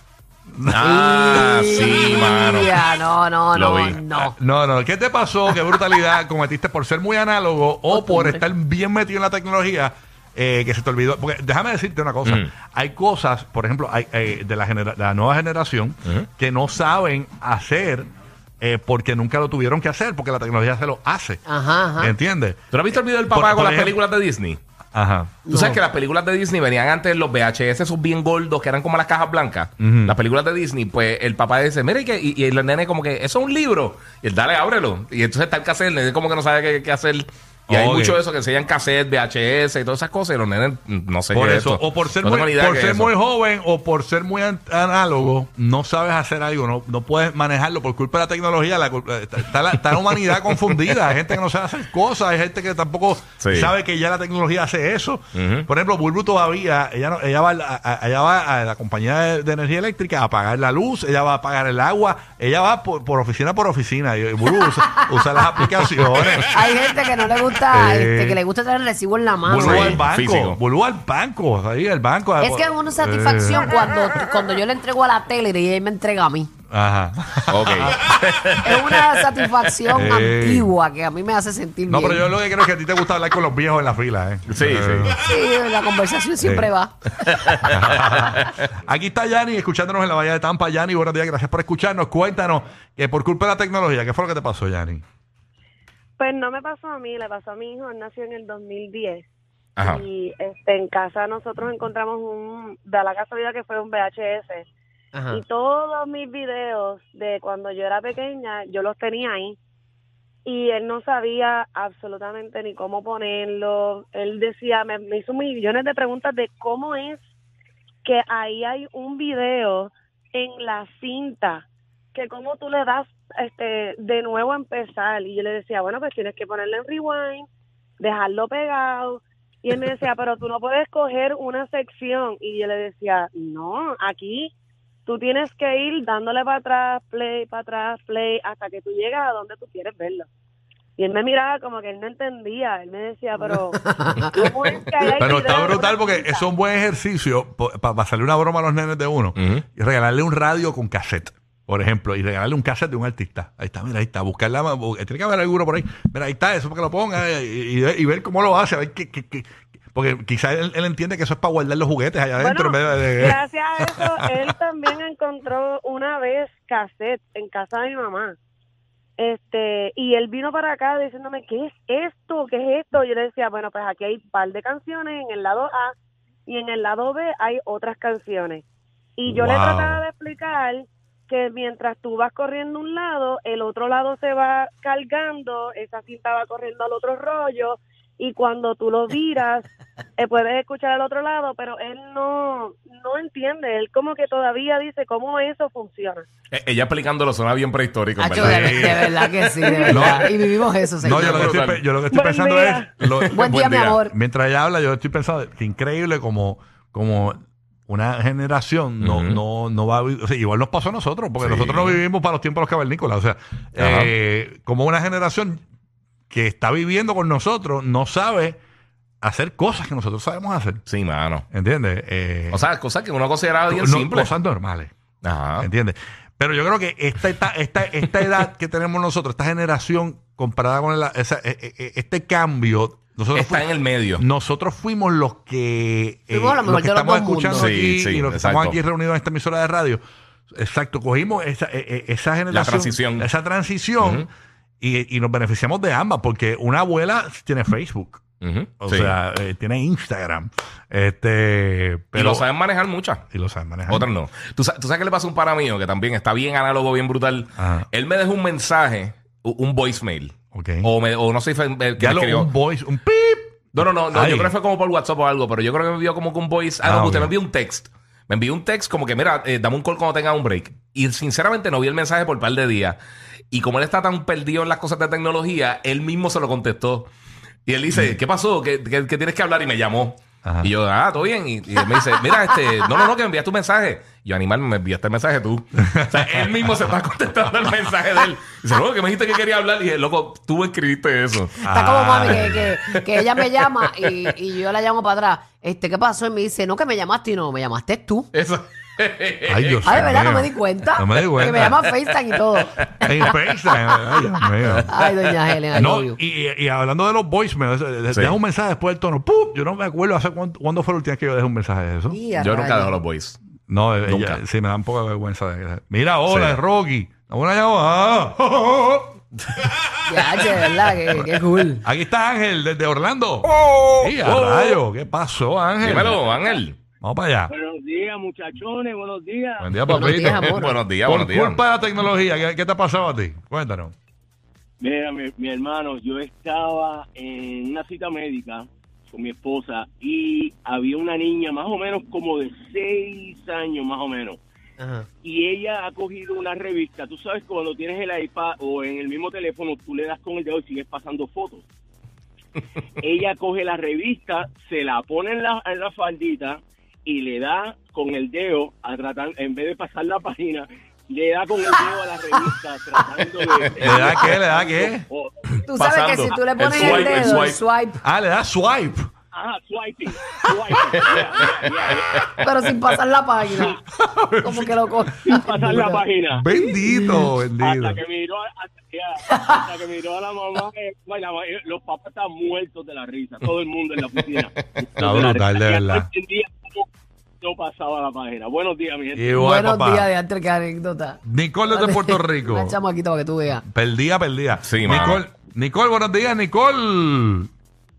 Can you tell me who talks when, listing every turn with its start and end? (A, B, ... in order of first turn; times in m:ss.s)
0:00.5-0:00.9 A
0:00.7-0:02.9 B
0:00.8-0:04.4 C
0:03.5-0:04.3 B
0:04.4-0:18.1 A
0:07.9-0:08.4 C
0:12.2-0:12.5 B
0:18.6-0:21.4 A
0:21.5-0:22.2 C
0:22.0-0:24.0 A
0:22.7-0:24.6 B
0:24.9-0:25.6 A
0:25.5-0:25.8 C
0:25.5-0:43.2 B
0:29.8-0:30.2 A
0:37.7-0:38.2 A
0:41.3-1:06.6 A
0:50.5-0:51.0 B
0:53.4-0:53.7 B
0:55.4-0:55.7 B
1:04.9-1:05.7 C
1:06.4-1:10.0 C
1:07.7-1:08.4 A
1:09.4-1:13.8 A
1:09.5-1:10.6 B
1:12.4-1:16.5 C
1:16.7-1:18.0 A
1:17.5-1:19.1 B
1:18.6-1:22.2 C
1:19.9-1:20.7 A
1:21.9-1:25.4 A
1:24.5-1:25.2 B
1:25.2-1:27.5 C
1:26.4-1:26.7 A
1:27.5-1:28.6 B
1:27.6-1:35.0 A
1:36.2-1:39.2 D
1:39.8-1:40.0 B
1:39.8-1:44.7 D
1:45.1-1:45.4 C
1:45.3-1:49.6 D
1:50.4-1:57.2 D
1:58.0-2:07.5 D
2:08.0-2:14.5 D
2:15.1-2:20.3 D
2:21.0-2:26.5 D
2:23.9-2:24.4 C
2:25.2-2:44.5 A
2:29.4-2:29.6 B
2:42.4-2:48.4 D
2:49.2-2:55.9 D
2:56.5-2:58.6 D
2:59.2-3:16.3 D
2:59.3-3:00.0 A
3:16.5-3:19.1 B
3:18.2-3:21.5 C
3:18.4-3:19.2 A
3:19.6-3:20.2 D
3:19.9-3:20.3 A
3:21.0-3:35.6 A
3:21.1-3:21.8 B
3:22.1-3:22.9 D
3:23.3-3:24.1 C
3:23.4-3:23.8 B
3:29.0-3:29.4 B
3:31.4-3:32.0 B
3:33.8-3:34.1 B
3:36.3-3:38.6 A
3:39.2-3:40.8 A
3:40.9-3:41.4 B
3:41.5-3:42.6 A
3:42.5-3:44.4 B
3:43.7-3:44.9 A
3:45.2-3:45.7 B
3:45.6-4:00.0 A
3:53.3-3:54.2 B
3:56.3-3:57.7 C
3:57.5-3:58.8 B
4:00.5-4:04.3 A
4:02.5-4:03.3 B
4:04.0-4:04.3 B
4:04.8-4:08.2 A
4:08.4-4:09.2 B
4:08.8-4:12.5 A
4:12.2-4:13.2 B
4:13.3-4:14.1 A
4:13.9-4:22.5 B
4:17.6-4:17.9 A
4:20.5-4:20.9 A
4:22.0-4:24.5 A
4:23.8-4:33.0 B
4:26.8-4:27.3 A
4:33.5-4:37.1 B
4:37.7-4:51.6 B
4:40.4-4:40.7 A
4:45.8-4:46.5 A
4:51.6-4:52.6 A
4:51.7-4:58.3 C
4:52.2-4:53.3 B
4:58.3-5:00.2 B
4:59.5-5:01.9 A
4:59.8-5:04.0 C
5:03.0-5:05.0 A
5:04.9-5:06.2 C
5:05.7-5:12.2 A
5:08.1-5:08.4 B
5:12.1-5:13.0 C
5:12.4-5:13.4 B
5:13.7-5:19.7 A
5:14.0-5:14.4 B
5:16.3-5:16.6 B
5:20.1-5:21.9 C
5:21.8-5:26.2 A
5:24.2-5:24.8 B
5:25.8-5:26.8 B
5:27.0-5:27.5 A
5:27.5-5:29.7 E
5:29.6-5:30.5 A
5:29.9-5:30.8 C
5:30.3-5:31.6 B
5:31.0-5:33.9 A
5:34.8-5:44.4 E
5:44.8-5:45.1 C
5:45.2-5:51.6 E
5:53.0-6:05.4 E
6:03.8-6:05.1 A
6:05.7-6:08.0 C
6:05.8-6:07.6 B
6:08.0-6:09.1 A
6:09.3-6:12.4 E
6:12.4-6:13.8 C
6:14.0-6:15.0 A
6:14.4-6:16.0 C
6:15.2-6:16.4 E
6:16.3-6:18.0 A
6:16.9-6:17.2 C
6:17.6-6:26.9 E
6:25.0-6:26.1 A
6:27.4-6:29.5 E
6:29.1-6:30.1 A
6:29.4-6:33.6 C
6:31.2-6:32.8 A
6:33.7-6:37.5 A
6:34.6-6:35.2 B